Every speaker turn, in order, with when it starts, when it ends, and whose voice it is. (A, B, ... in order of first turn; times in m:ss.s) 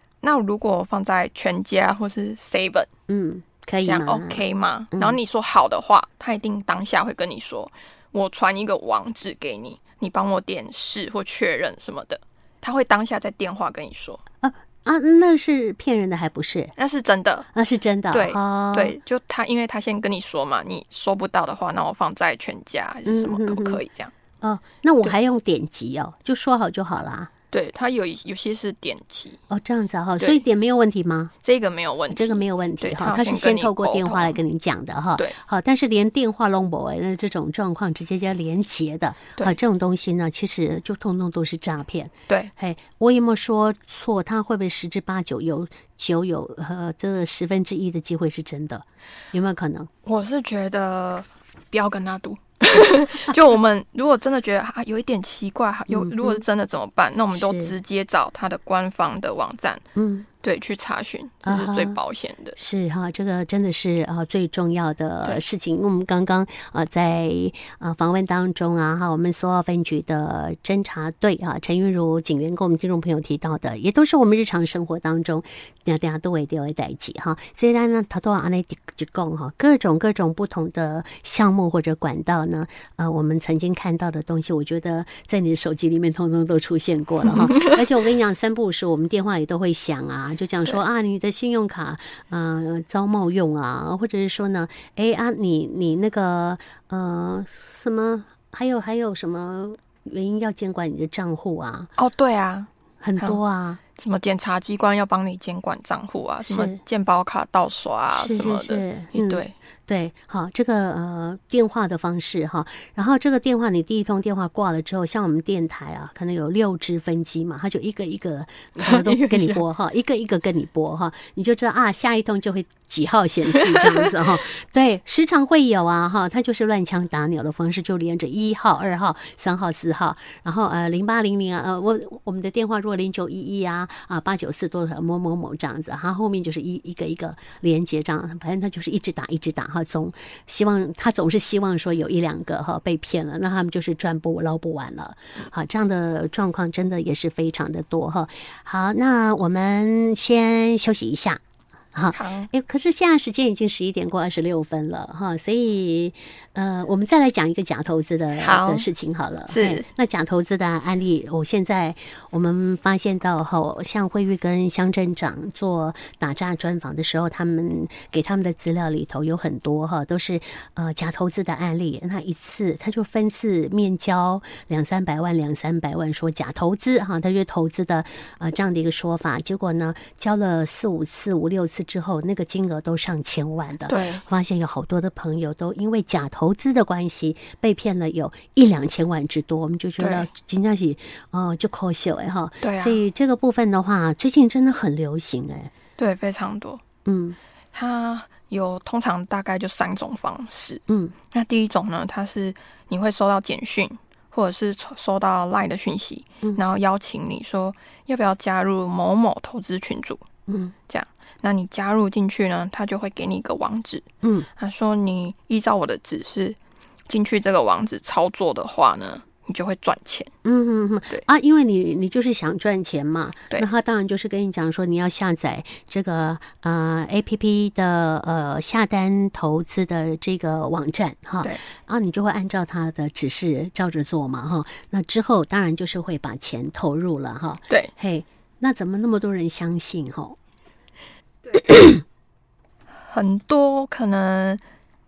0:00.2-0:02.9 A
0:03.1-0:04.4 B
0:03.8-0:14.2 A
0:14.4-0:16.7 B
0:16.8-0:17.5 A
0:17.5-0:19.0 B
0:18.1-0:24.1 A
0:23.1-0:23.8 B
0:24.4-0:27.3 B
0:27.5-0:29.4 A
0:29.5-0:31.3 B
0:31.4-0:34.4 A
0:32.1-0:49.9 B
0:50.0-0:59.8 A
0:55.9-0:56.4 B
0:57.3-0:57.7 B
1:00.0-1:00.3 B
1:00.4-1:02.6 A
1:01.4-1:02.0 B
1:02.6-1:41.9 B
1:27.3-1:27.7 A
1:42.0-1:43.4 A
1:43.0-1:43.8 B
1:44.0-1:49.5 A
1:46.5-1:46.8 B
1:48.1-2:31.4 B
1:58.8-1:59.6 A
2:31.9-3:15.7 B
2:32.1-2:32.5 A
2:38.4-2:38.9 A
2:39.5-2:39.8 A
3:03.9-3:04.2 A
3:10.0-3:10.3 A
3:12.6-3:13.0 A
3:16.0-3:16.8 A
3:17.1-3:17.4 B
3:17.7-3:30.2 A
3:20.9-3:21.1 B
3:30.5-3:30.7 B
3:30.9-3:34.1 A
3:34.6-3:36.6 A
3:37.1-3:40.3 A
3:40.4-4:00.4 B
4:01.6-4:02.0 B
4:03.0-4:04.6 A